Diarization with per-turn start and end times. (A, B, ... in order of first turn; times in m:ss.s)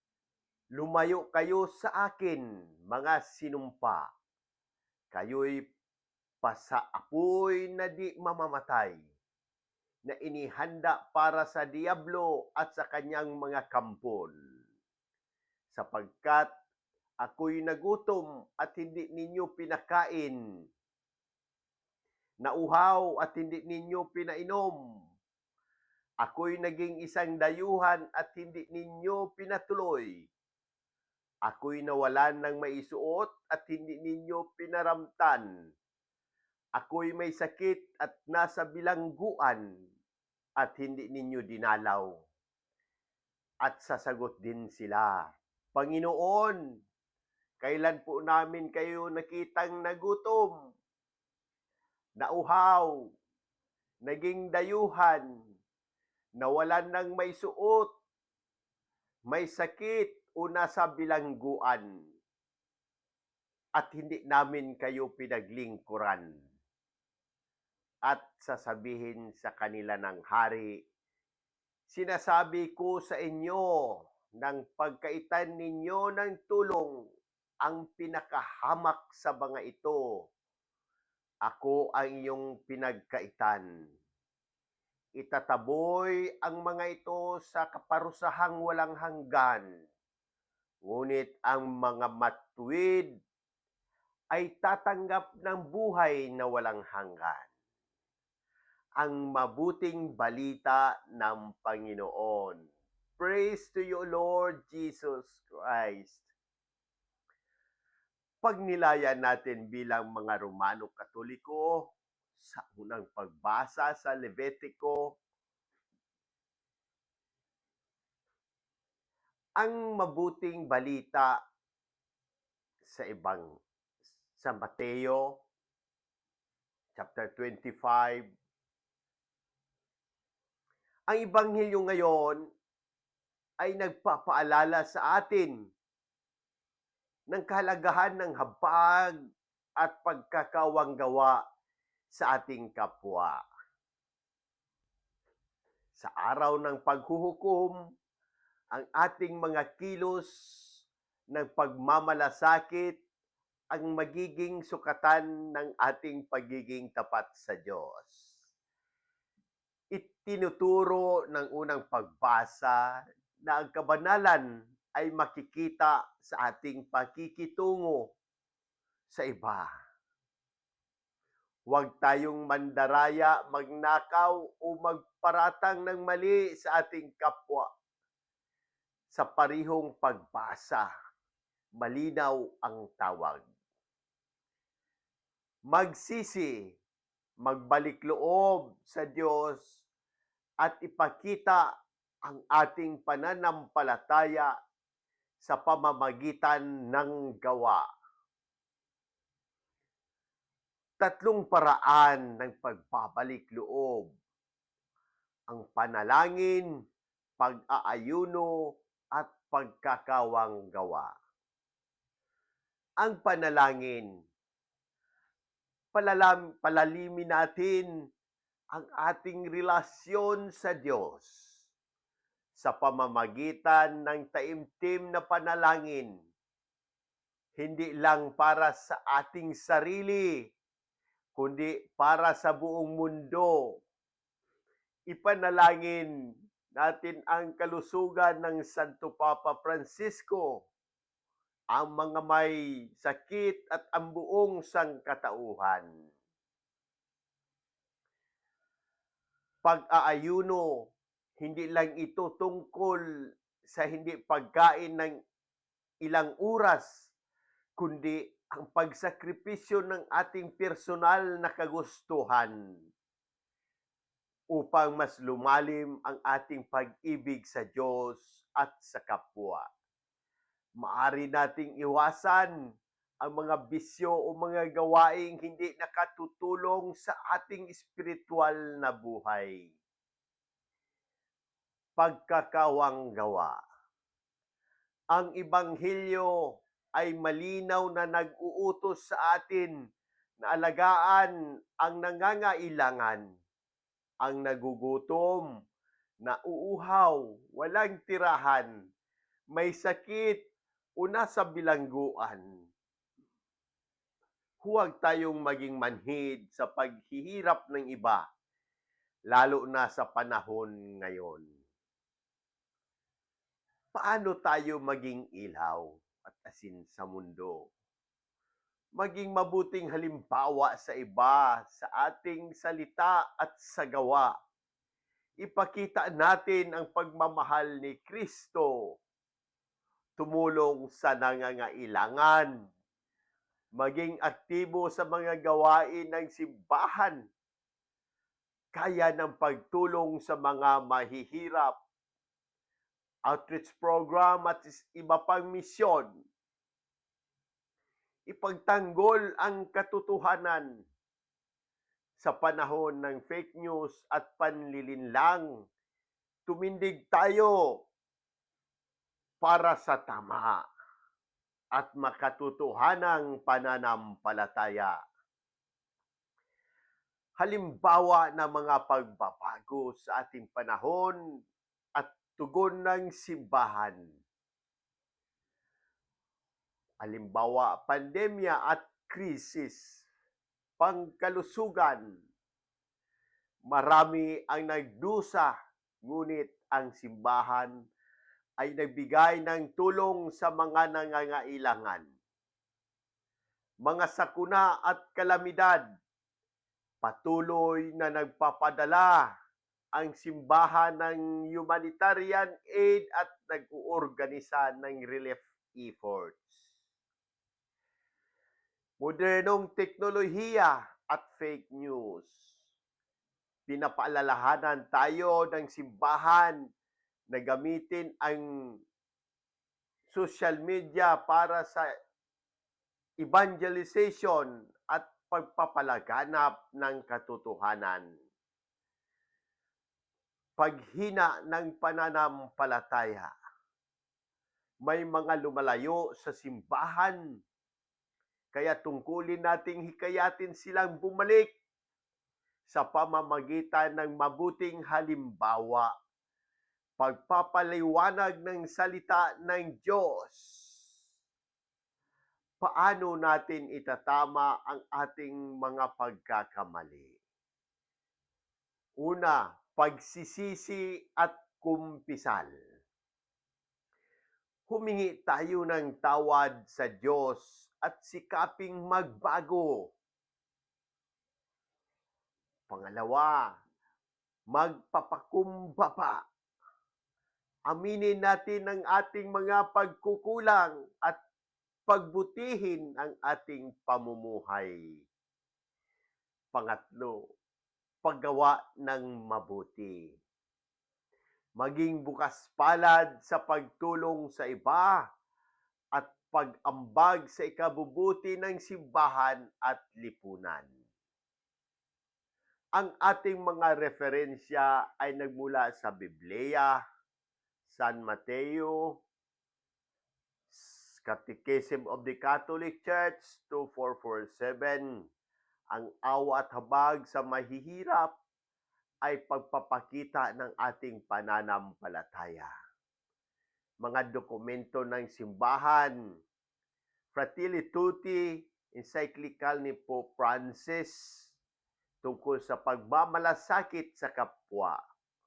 0:00.8-0:04.1 A
0:05.1-0:05.6 A
0:06.4-0:09.0 A
0:10.1-0:14.3 A
0:15.7-0:16.5 A
0:17.2-0:20.4 A
0:22.4-0:24.8 A
0:26.2-0:30.3 A
0:31.5-0:35.5 A
0:36.8-0:39.6 A
0:40.6-0:42.2 A
0:43.6-0:45.2 A
0:45.7-0:46.6 A
0:47.6-0:50.5 A
0:52.2-0:52.9 A
0:54.0-0:55.2 A
0:56.4-0:57.9 A
0:59.3-1:01.9 A
1:03.8-1:06.2 A
1:08.1-1:10.7 A
1:11.9-1:13.6 A
1:14.4-1:16.9 A
1:17.6-1:20.0 A
1:21.4-1:23.6 A
1:25.2-1:29.7 A
1:30.8-1:33.1 A
1:34.3-1:37.5 A
1:39.0-1:42.6 A
1:43.2-1:46.3 A
1:48.4-1:55.2 A
1:59.6-2:01.3 A
2:02.8-2:03.5 A
2:04.4-2:05.3 A
2:07.0-2:08.2 A
2:11.1-2:12.4 A
2:13.6-2:15.6 A
2:17.3-2:19.1 A
2:19.8-2:21.4 A
2:22.1-2:23.4 A
2:25.9-2:27.8 A
2:28.7-2:30.3 A
2:31.3-2:33.0 A
2:33.7-2:38.3 A
2:39.9-2:42.8 A
2:43.4-2:44.4 A
2:45.0-2:48.1 A
2:49.1-2:49.7 A
2:51.7-2:57.7 A
2:59.1-3:00.9 A
3:01.8-3:03.4 A
3:05.7-3:06.5 A
3:07.4-3:09.8 A
3:10.6-3:11.6 A
3:12.2-3:14.5 A
3:15.4-3:17.8 A
3:21.0-3:24.1 A
3:25.5-3:26.7 A
3:27.4-3:28.5 A
3:29.1-3:31.1 A
3:33.0-3:34.1 A
3:35.9-3:37.9 A
3:38.7-3:41.4 A
3:42.6-3:46.1 A
3:47.6-3:50.3 A
3:51.4-3:53.5 A
3:55.1-3:56.1 A
3:56.8-4:00.6 A
4:01.7-4:05.9 A
4:09.6-4:10.7 A
4:11.4-4:13.0 A
4:13.6-4:15.1 A
4:16.0-4:17.1 A
4:17.8-4:22.5 A
4:24.5-4:29.6 A
4:30.8-4:32.5 A
4:33.2-4:39.7 A
4:42.0-4:43.6 A
4:45.1-4:46.3 A
4:47.0-4:49.7 A
4:50.4-4:53.2 A
4:54.2-4:55.5 A
4:56.2-4:58.7 A
4:59.5-5:00.4 A
5:01.0-5:02.4 A
5:04.6-5:08.2 A
5:09.3-5:11.4 A
5:13.9-5:17.6 A
5:19.0-5:24.3 A
5:25.4-5:28.7 A
5:30.2-5:32.5 A
5:33.8-5:37.2 A
5:38.7-5:41.7 A
5:43.3-5:46.1 A
5:48.3-5:50.7 A
5:52.2-5:55.5 A
5:56.5-5:57.5 A
5:59.4-6:00.6 A
6:01.8-6:04.9 A
6:07.4-6:11.2 A
6:12.0-6:14.0 A
6:17.0-6:20.0 A
6:20.8-6:22.0 A
6:23.7-6:25.5 A
6:26.0-6:27.7 A
6:28.6-6:32.1 A
6:33.8-6:35.8 A
6:37.0-6:39.2 A
6:39.9-6:46.6 A
6:49.0-6:52.5 A
6:53.7-6:56.6 A
6:57.3-6:58.4 A
7:00.1-7:01.9 A
7:03.2-7:08.1 A
7:10.6-7:13.3 A
7:14.8-7:17.2 A
7:18.5-7:21.5 A
7:22.7-7:25.9 A
7:27.0-7:30.7 A
7:32.6-7:37.2 A
7:39.0-7:42.5 A
7:44.7-7:49.9 A
7:52.7-7:53.4 A
7:54.5-7:56.2 A
7:57.7-8:01.2 A
8:01.9-8:04.7 A
8:06.5-8:07.2 A
8:08.0-8:10.0 A
8:11.6-8:14.9 A
8:16.0-8:20.7 A
8:22.8-8:26.7 A
8:27.7-8:29.0 A
8:30.5-8:34.9 A
8:35.7-8:38.1 A
8:39.0-8:42.5 A
8:43.8-8:45.9 A
8:47.1-8:51.2 A
8:52.0-8:54.8 A